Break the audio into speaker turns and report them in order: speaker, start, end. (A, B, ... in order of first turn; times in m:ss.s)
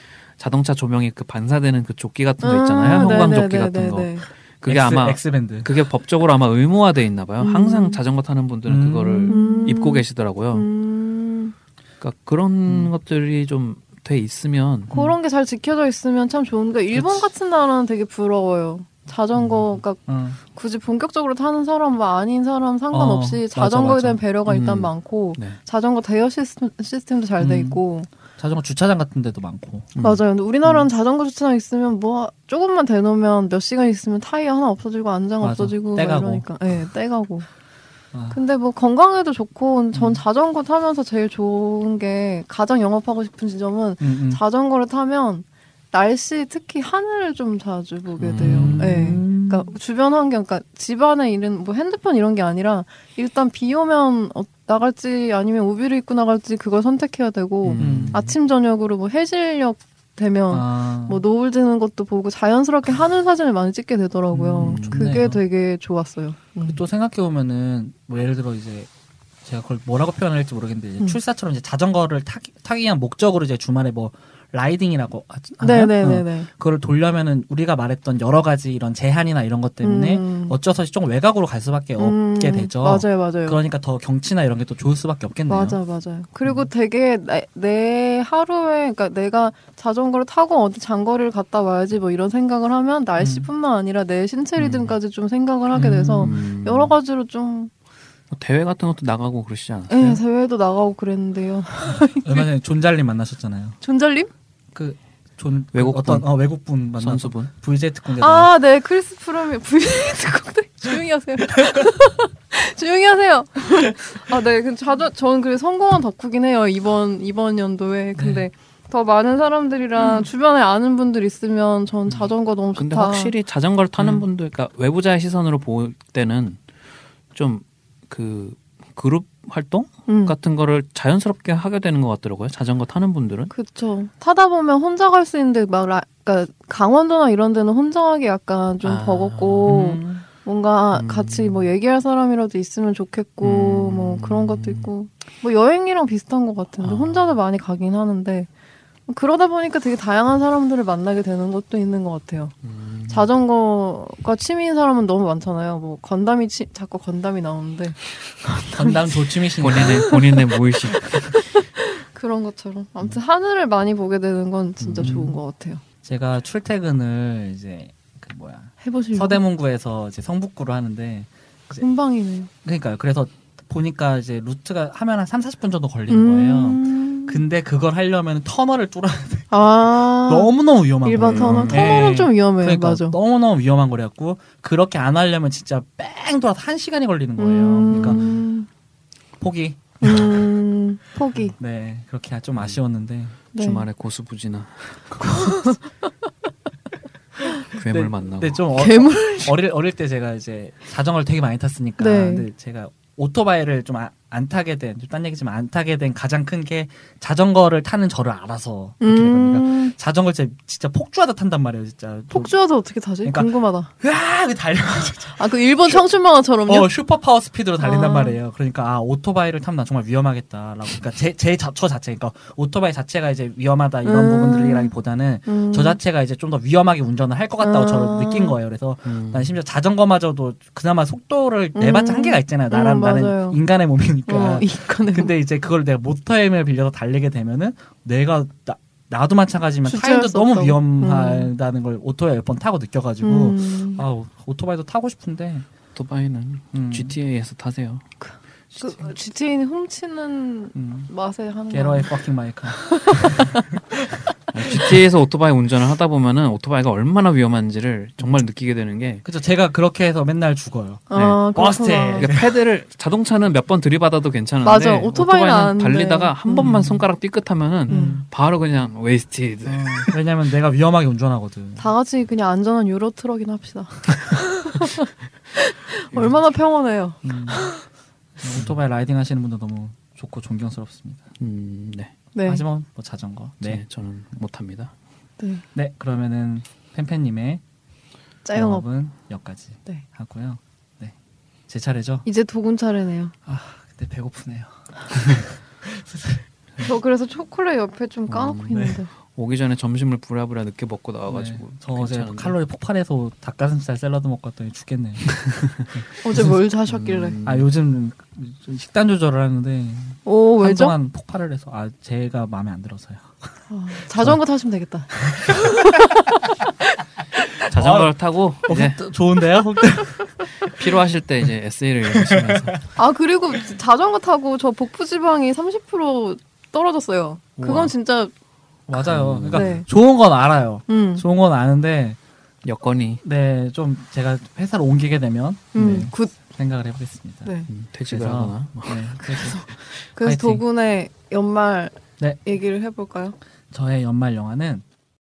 0:00.4-0:10.7 A
0:02.4-0:04.3 B
0:02.8-0:03.2 C
0:04.7-0:05.7 C
0:07.4-0:08.0 B
0:08.7-0:09.4 C
0:09.3-0:11.5 B
0:12.0-0:14.9 A
0:14.9-0:15.2 C
0:14.9-0:28.1 B
0:16.9-0:17.3 C
0:19.4-0:20.4 C
0:22.9-0:24.2 C
0:24.5-0:25.6 A
0:27.4-0:27.8 C
0:28.4-0:29.9 C
0:30.0-0:30.2 A
0:30.0-0:37.5 B
0:35.4-0:36.5 C
0:38.1-0:38.4 C
0:38.3-1:06.8 B
0:39.9-0:40.2 C
0:44.0-0:44.4 C
0:48.2-0:49.2 A
0:48.4-0:49.7 C
0:57.6-0:58.3 A
0:57.8-0:58.2 C
1:00.5-1:01.2 C
1:04.3-1:05.4 C
1:04.6-1:05.2 A
1:06.7-1:08.9 C
1:09.4-1:25.8 C
1:15.6-1:16.5 B
1:19.8-1:20.6 B
1:22.0-1:23.6 B
1:25.5-1:37.7 B
1:33.2-1:33.5 C
1:34.6-1:34.9 A
1:35.7-1:36.4 C
1:36.2-1:36.9 A
1:38.3-1:40.2 A
1:39.9-1:42.5 B
1:42.2-1:43.8 C
1:43.8-1:44.3 B
1:44.7-1:48.5 C
1:45.7-1:47.5 A
1:48.1-2:03.4 B
1:58.2-1:58.5 C
2:02.1-2:06.6 A
2:04.0-2:04.3 C
2:07.3-2:13.5 A
2:10.1-2:10.4 B
2:13.5-2:28.5 B
2:18.8-2:19.8 A
2:19.7-2:20.2 C
2:20.9-2:21.7 A
2:23.4-2:24.9 A
2:26.8-2:27.4 A
2:29.1-2:32.5 B
2:32.6-2:33.3 A
2:33.1-2:40.4 B
2:38.7-2:40.1 C
2:39.6-2:41.3 A
2:40.9-2:45.8 B
2:44.8-2:45.2 A
2:45.0-2:45.4 C
2:46.0-2:51.8 C
2:48.8-2:49.4 B
2:51.8-2:52.5 B
2:52.6-3:08.2 C
2:56.1-2:57.4 B
2:59.5-3:03.2 B
3:01.2-3:02.0 A
3:07.4-3:08.7 B
3:07.9-3:08.5 A
3:09.4-3:10.5 C
3:10.0-3:11.6 B
3:11.4-3:13.4 C
3:13.5-3:13.9 B
3:13.6-3:15.8 A
3:15.2-3:15.8 B
3:17.7-3:18.7 A
3:17.8-3:32.6 C
3:18.8-3:19.6 B
3:22.0-3:22.5 B
3:29.0-3:30.0 B
3:32.3-3:33.9 B
3:33.2-3:36.0 C
3:35.3-3:36.9 B
3:36.7-4:05.7 C
3:37.8-3:38.4 B
3:44.0-3:45.0 B
3:45.5-3:46.0 B
3:47.6-3:48.6 B
3:49.0-3:49.6 A
3:51.8-3:53.6 B
3:54.3-3:55.3 B
3:59.8-4:01.5 B
4:03.2-4:04.0 B
4:06.0-4:08.0 A
4:06.7-4:07.2 C
4:08.2-4:12.2 B
4:08.7-4:09.2 C
4:10.7-4:11.1 C
4:11.7-4:13.6 C
4:12.8-4:13.7 B
4:14.5-4:19.2 A
4:19.2-4:22.4 C
4:21.1-4:22.3 B
4:21.1-4:21.4 A
4:22.2-4:30.1 A
4:24.6-4:26.9 B
4:26.5-4:27.1 C
4:27.9-4:28.2 C
4:27.9-4:28.2 B
4:29.6-4:31.9 C
4:31.8-4:37.8 B
4:37.2-4:37.8 C
4:38.4-4:41.2 C
4:41.4-4:42.1 A
4:42.3-4:42.6 B
4:42.4-4:43.8 C
4:43.6-4:44.9 A
4:45.4-4:45.6 B
4:45.7-4:47.6 C
4:48.4-4:48.9 B
4:48.5-4:51.1 C
4:51.7-4:52.3 C
4:52.2-4:53.3 B
4:53.5-4:56.9 C
4:56.8-4:59.1 B
4:58.3-5:02.6 A
5:01.3-5:06.6 C
5:06.2-5:07.4 B
5:06.4-5:07.7 A
5:07.4-5:13.5 C
5:10.2-5:11.0 B
5:13.7-5:16.2 B
5:14.1-5:14.4 C
5:15.3-5:15.8 C
5:17.6-5:19.0 A
5:17.7-5:18.1 C
5:18.6-5:20.8 C
5:20.6-5:22.8 A
5:22.1-5:22.8 C
5:23.0-5:28.3 B
5:27.6-5:27.9 A
5:28.9-5:32.2 C
5:29.0-5:29.8 A
5:29.5-5:29.9 B
5:30.9-5:31.2 B
5:32.6-5:33.2 A
5:33.2-5:37.5 C
5:35.7-5:36.4 B
5:35.8-5:36.1 A
5:37.4-5:37.7 B
5:37.7-5:39.0 A
5:38.1-5:40.6 C
5:39.2-5:43.4 B
5:43.7-5:44.8 C